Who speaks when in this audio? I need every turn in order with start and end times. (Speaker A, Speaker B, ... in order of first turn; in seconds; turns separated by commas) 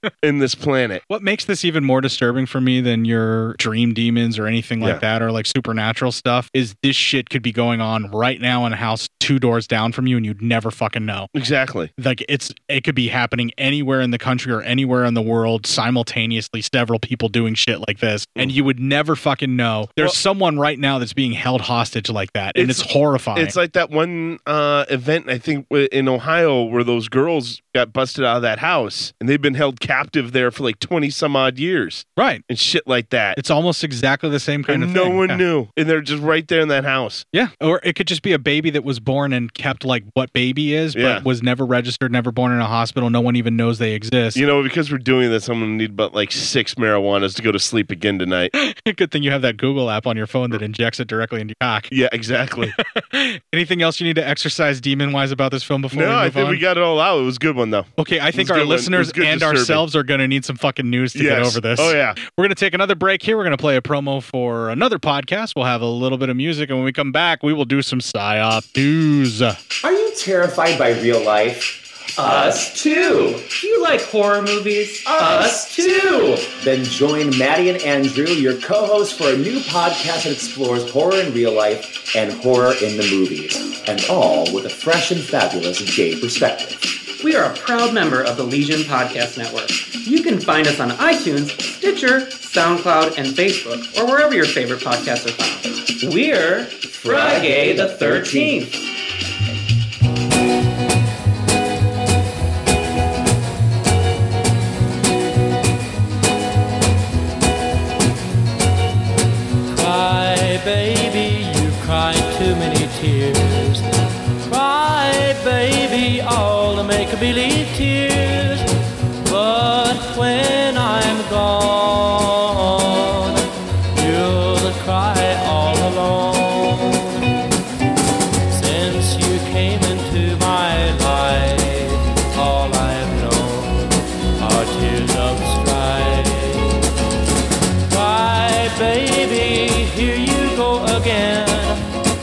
Speaker A: 0.2-1.0, Speaker B: 1.1-11.3, Speaker A: 11.3-11.9, Speaker B: 12.0-23.6, Speaker A: 22.6-33.4, Speaker B: 32.2-32.4, Speaker B: 33.4-35.4, Speaker A: 34.7-37.2, Speaker B: 37.3-44.4, Speaker A: 41.0-41.2, Speaker A: 44.4-48.5, Speaker B: 48.6-51.9, Speaker A: 51.9-52.8, Speaker B: 52.8-56.6, Speaker A: 55.9-59.8, Speaker B: 58.0-69.6, Speaker A: 61.1-62.2, Speaker C: 69.8-86.9, Speaker D: 87.2-95.7, Speaker C: 96.0-98.8, Speaker D: 96.5-98.7, Speaker E: 109.7-113.9, Speaker E: 114.4-118.7, Speaker E: 119.2-127.3, Speaker E: 128.5-136.8, Speaker E: 137.9-141.8